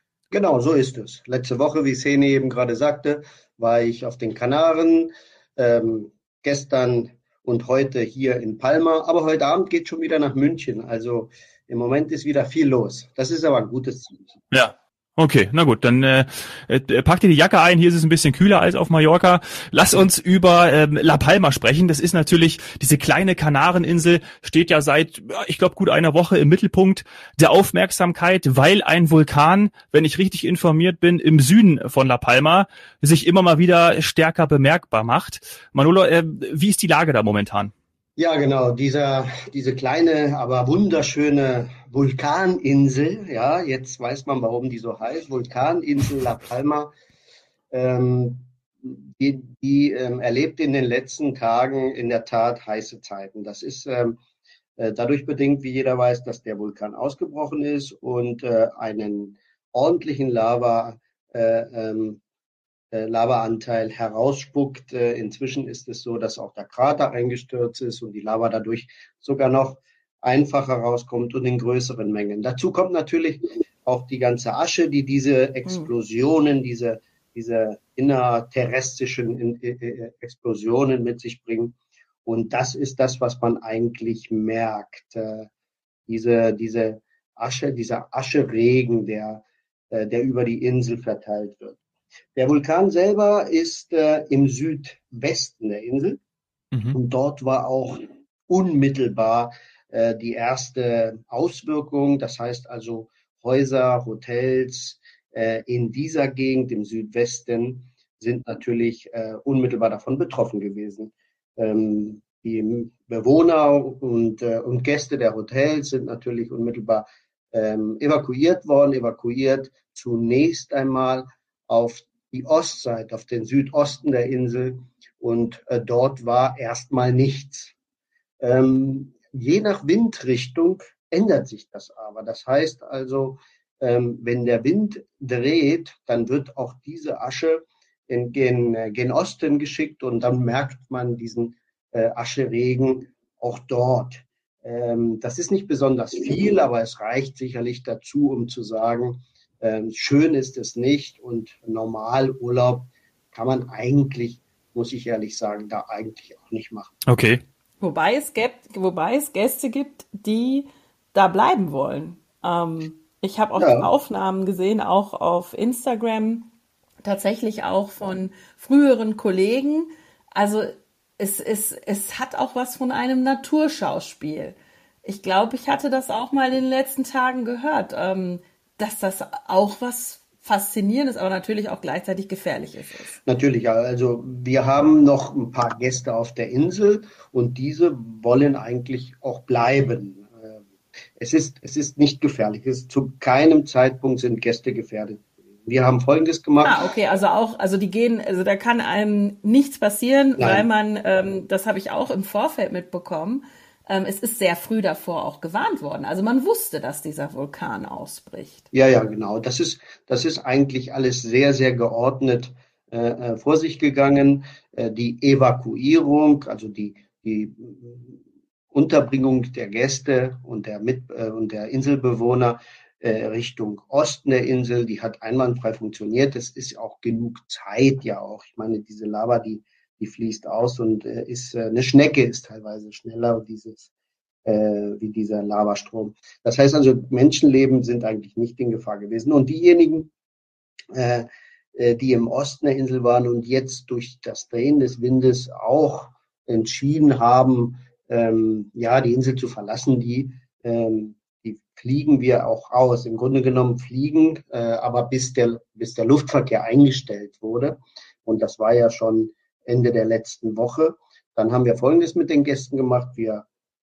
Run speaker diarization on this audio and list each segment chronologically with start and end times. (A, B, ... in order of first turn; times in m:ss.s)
0:00.3-0:14.3 A
0:14.5-0:37.7 B
0:38.2-0:46.9 A
0:47.7-0:54.2 A
0:54.8-1:02.2 A
1:02.9-1:25.5 A
1:26.1-1:31.8 A
1:32.4-1:36.2 A
1:36.9-2:07.7 A
2:08.4-2:36.9 A
2:37.1-2:37.4 B
2:37.8-2:46.5 C
2:43.6-2:43.9 A
2:47.0-3:03.2 C
3:03.2-3:10.6 A
3:11.2-3:16.9 A
3:16.6-3:28.6 C
3:20.4-3:20.7 A
3:28.7-3:38.2 A
3:38.7-3:53.9 A
3:54.4-4:00.1 A
4:00.9-4:23.4 A